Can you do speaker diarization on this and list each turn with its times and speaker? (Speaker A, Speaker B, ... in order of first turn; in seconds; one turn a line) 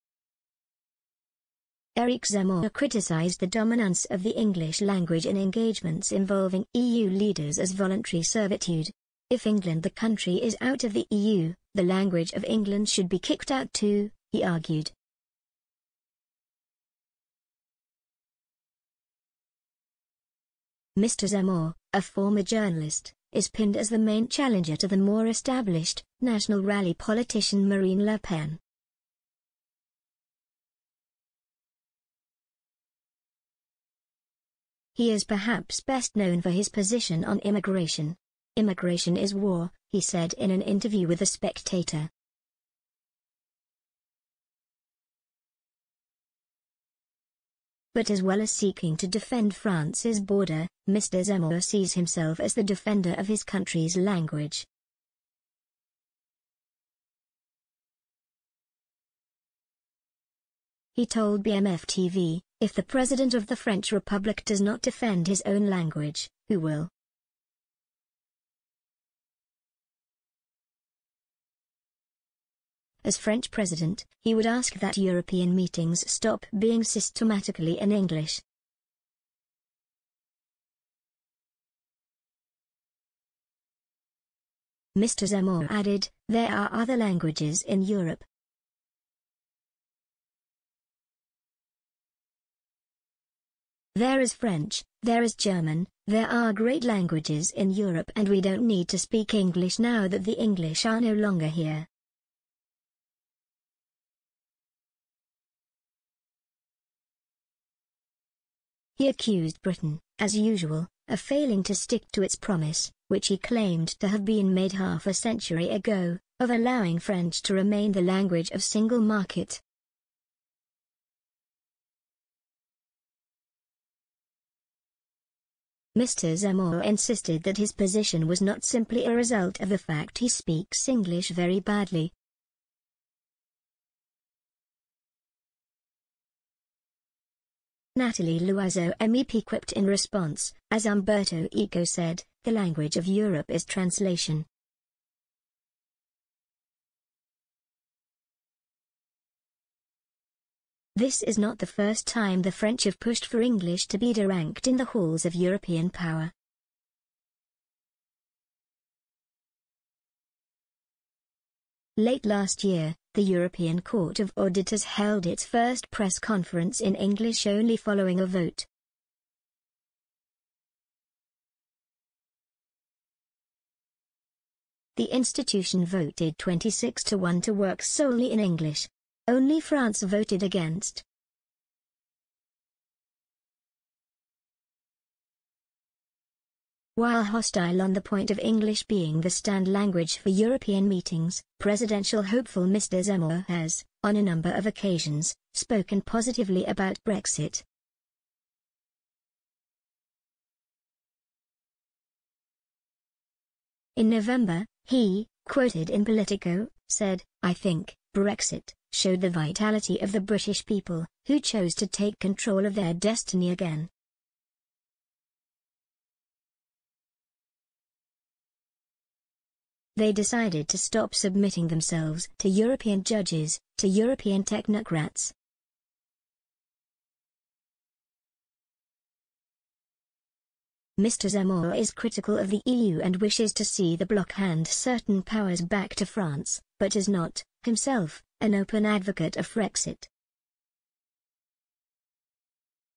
Speaker A: 2.0-14.9
Speaker A: 21.0-28.6
Speaker A: 35.0-42.1
Speaker A: 47.9-54.7
Speaker A: 61.0-66.9
Speaker A: 73.0-78.4
Speaker A: 85.0-88.3
Speaker A: 94.0-101.9
Speaker A: 109.0-119.6
Speaker A: 126.0-132.1
Speaker A: 138.0-144.5
Speaker A: 151.0-156.3
Speaker A: 162.0-168.7
Speaker A: 175.0-181.0
Speaker A: 187.0-197.7
Speaker A: 204.0-213.9
Speaker A: 220.0-225.3
Speaker A: 231.0-240.1